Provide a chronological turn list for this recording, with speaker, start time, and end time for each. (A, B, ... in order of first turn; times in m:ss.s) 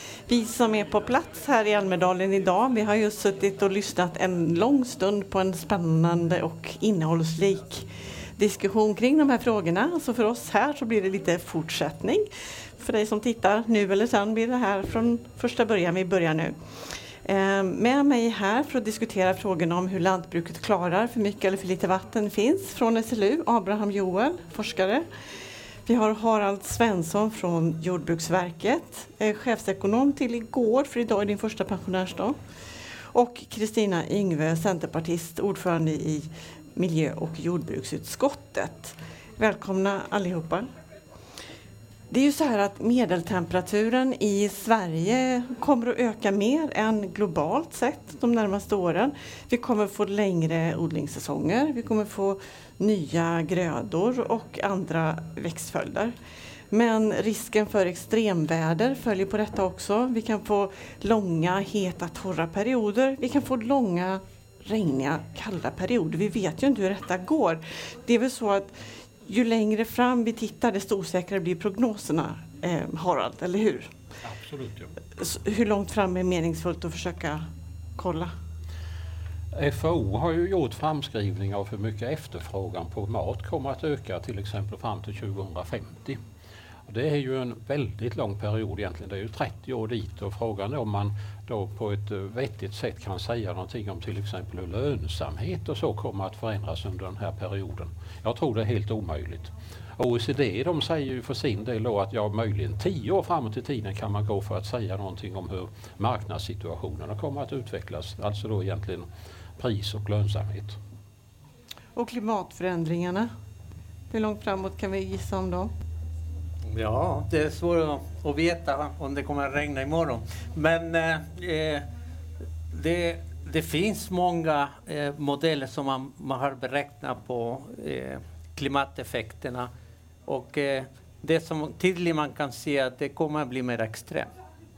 0:00.3-0:12.3 A
0:12.8-0:16.6 A
0:17.3-0:25.1 A
0:25.9-0:32.4 A
0:33.1-0:40.7 A
0:42.1-0:56.1 A
0:56.7-1:13.9 A
1:14.2-1:14.9 B
1:15.2-1:17.5 A
1:18.0-1:18.3 A
1:19.5-1:26.2 B
1:26.9-1:49.1 B
1:49.6-1:50.8 B
1:52.0-1:53.3 A
1:54.1-1:55.7 A
1:56.7-2:01.9 C
2:02.7-2:09.7 C
2:10.3-2:14.3 C